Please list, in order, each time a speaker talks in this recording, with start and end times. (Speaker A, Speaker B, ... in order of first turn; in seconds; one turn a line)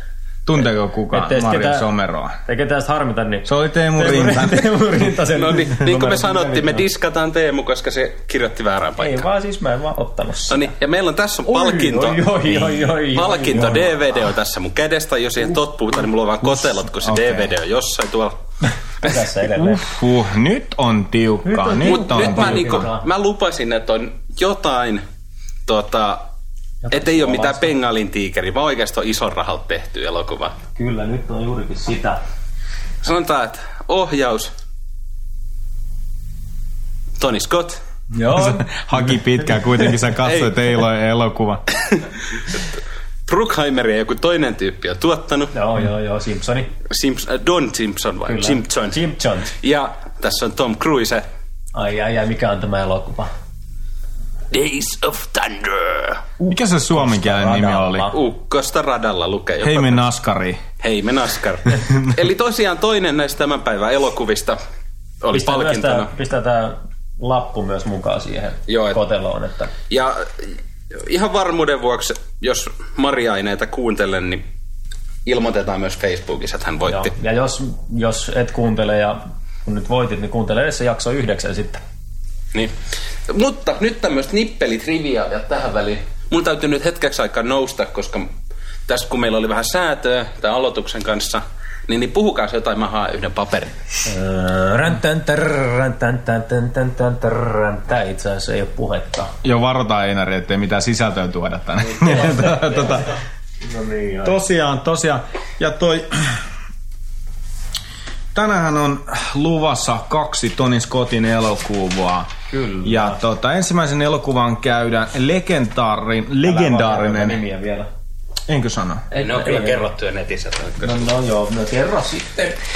Speaker A: 0.5-2.4
Speaker B: 1.1-1.9
Speaker B: 2.5-6.8
Speaker A: 3.5-4.8
Speaker C: 5.3-9.2
Speaker B: 9.0-10.7
Speaker C: 10.5-18.4
Speaker B: 11.4-14.1
Speaker A: 17.0-17.5
Speaker B: 19.0-19.9
Speaker A: 19.5-22.9
Speaker B: 21.4-23.1
Speaker C: 21.8-25.0
Speaker C: 25.7-26.3
Speaker B: 26.9-27.8
Speaker C: 26.9-30.6
Speaker B: 30.8-32.2
Speaker C: 33.0-34.5
Speaker C: 37.2-37.8
Speaker B: 38.1-38.7
Speaker A: 38.3-41.6
Speaker C: 40.2-40.5
Speaker C: 41.9-42.7
Speaker C: 43.3-45.5
Speaker B: 45.5-46.7
Speaker C: 46.9-49.0
Speaker B: 48.3-49.5
Speaker C: 49.6-51.2
Speaker B: 51.7-53.3
Speaker C: 54.5-56.2
Speaker B: 56.4-58.2
Speaker A: 56.5-58.1
Speaker C: 58.1-60.0
Speaker A: 59.6-60.6
Speaker C: 60.8-64.6
Speaker C: 65.2-66.1
Speaker B: 65.3-69.7
Speaker C: 68.7-69.0
Speaker C: 69.9-74.4
Speaker C: 75.2-77.1
Speaker B: 76.9-81.8
Speaker C: 83.3-88.3
Speaker C: 88.9-93.7
Speaker B: 94.0-99.3
Speaker A: 99.4-103.2
Speaker B: 101.9-103.0
Speaker B: 103.6-104.4
Speaker A: 104.2-106.4
Speaker A: 108.3-112.3
Speaker B: 112.5-113.2
Speaker A: 112.8-117.4
Speaker B: 116.4-117.9
Speaker A: 118.5-119.0
Speaker B: 119.1-119.8
Speaker C: 119.2-121.1
Speaker B: 120.8-122.6